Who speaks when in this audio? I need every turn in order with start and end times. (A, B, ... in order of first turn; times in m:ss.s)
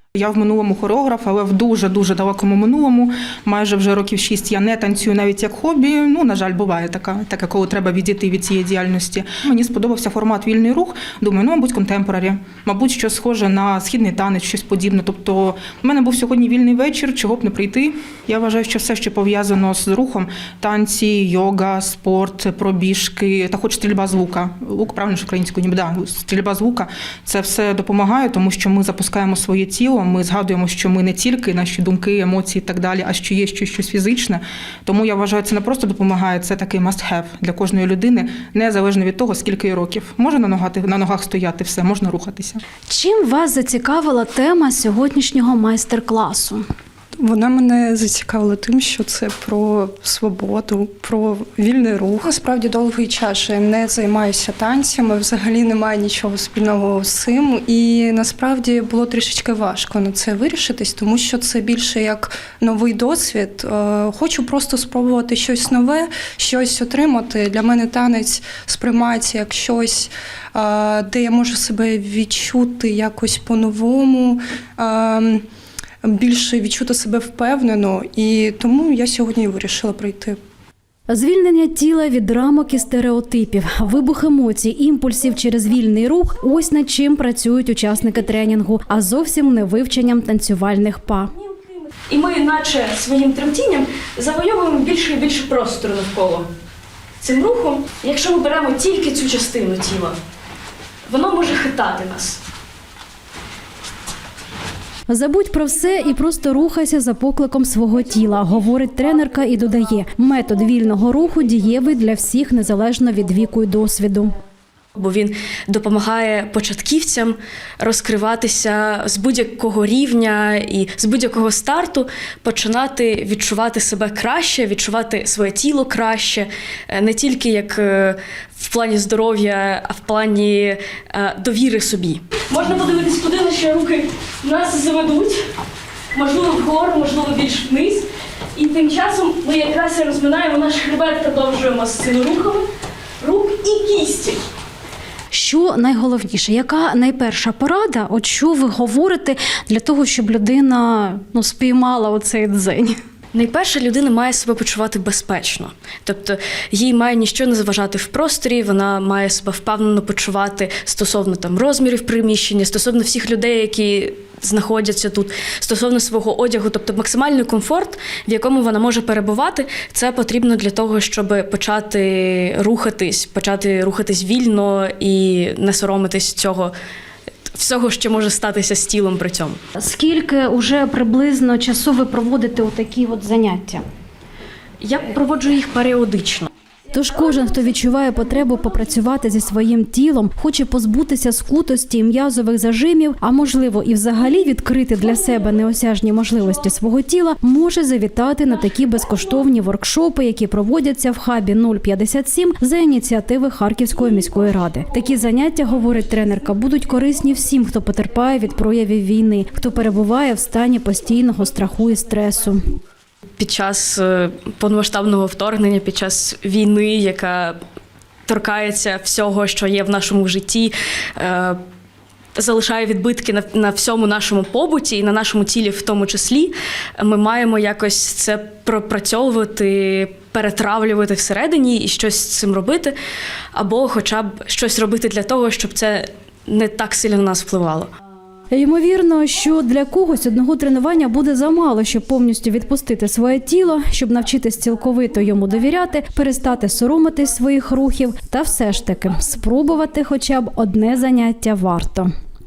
0:00.2-0:42.6 A
0:42.9-0:46.6 B
0:47.2-1:15.4 C
1:16.0-1:20.4 C
1:21.1-1:31.3 B
1:32.1-1:36.5 D
1:37.2-1:40.2 D
1:41.1-1:42.4 D
1:45.1-1:54.3 B
1:55.0-2:15.4 D
2:16.1-2:22.7 D
2:23.2-2:24.4 D
2:25.3-2:33.0 B
2:33.3-2:56.8 D
2:57.5-2:59.6 D
2:59.8-3:03.8 B
3:04.8-3:06.5 D
3:06.9-3:32.7 B
3:33.4-3:37.6 D
3:38.3-3:41.6 D
3:42.4-3:53.0 D
3:53.5-3:57.9 D
3:58.5-4:12.1 B